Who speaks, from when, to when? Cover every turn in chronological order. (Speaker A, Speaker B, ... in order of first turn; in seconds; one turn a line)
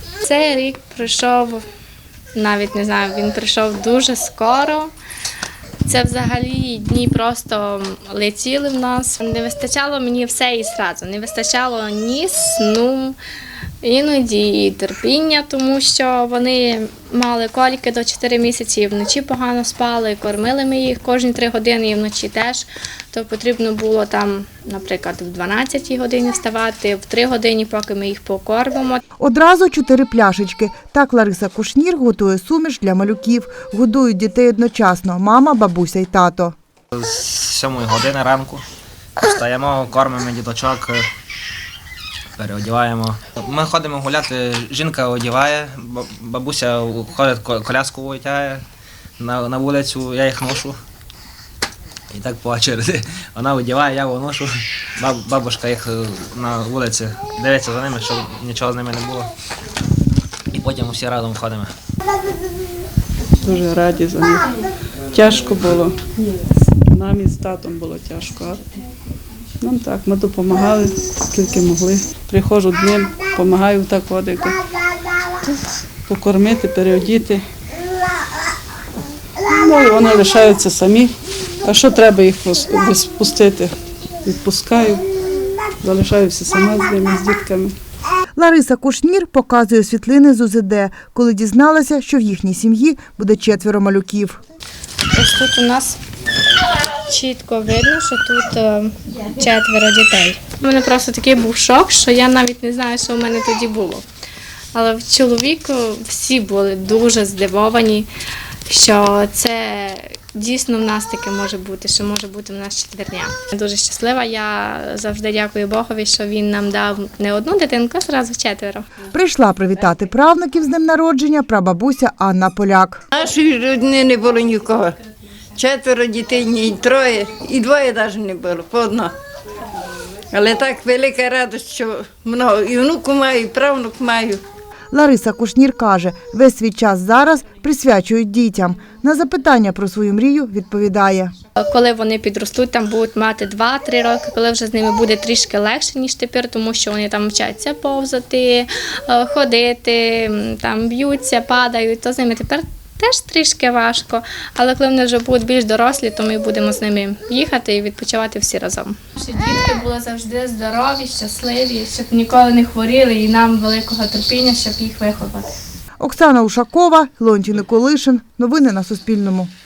Speaker A: 0.2-1.6
Speaker A: 2.3-4.9
Speaker A: 5.8-13.2
Speaker A: 13.8-29.0
Speaker B: 29.2-36.5
Speaker C: 36.9-38.6
Speaker C: 39.2-41.0
Speaker C: 42.4-48.6
Speaker C: 49.2-50.8
Speaker C: 52.1-59.3
Speaker C: 60.5-61.7
Speaker D: 63.4-64.5
Speaker D: 65.1-66.0
Speaker D: 66.9-68.7
Speaker D: 69.6-74.6
Speaker D: 75.4-77.4
Speaker D: 79.5-83.7
Speaker D: 84.2-85.0
Speaker D: 85.8-87.7
Speaker B: 88.3-94.4
Speaker A: 95.1-96.0
Speaker A: 97.0-104.0
Speaker A: 104.7-108.1
Speaker A: 108.7-118.8
Speaker B: 119.1-123.0
Speaker E: 123.1-125.0
Speaker E: 125.5-129.1
Speaker E: 130.3-134.4
Speaker B: 134.9-141.3
Speaker A: 141.6-165.5
Speaker B: 166.0-169.5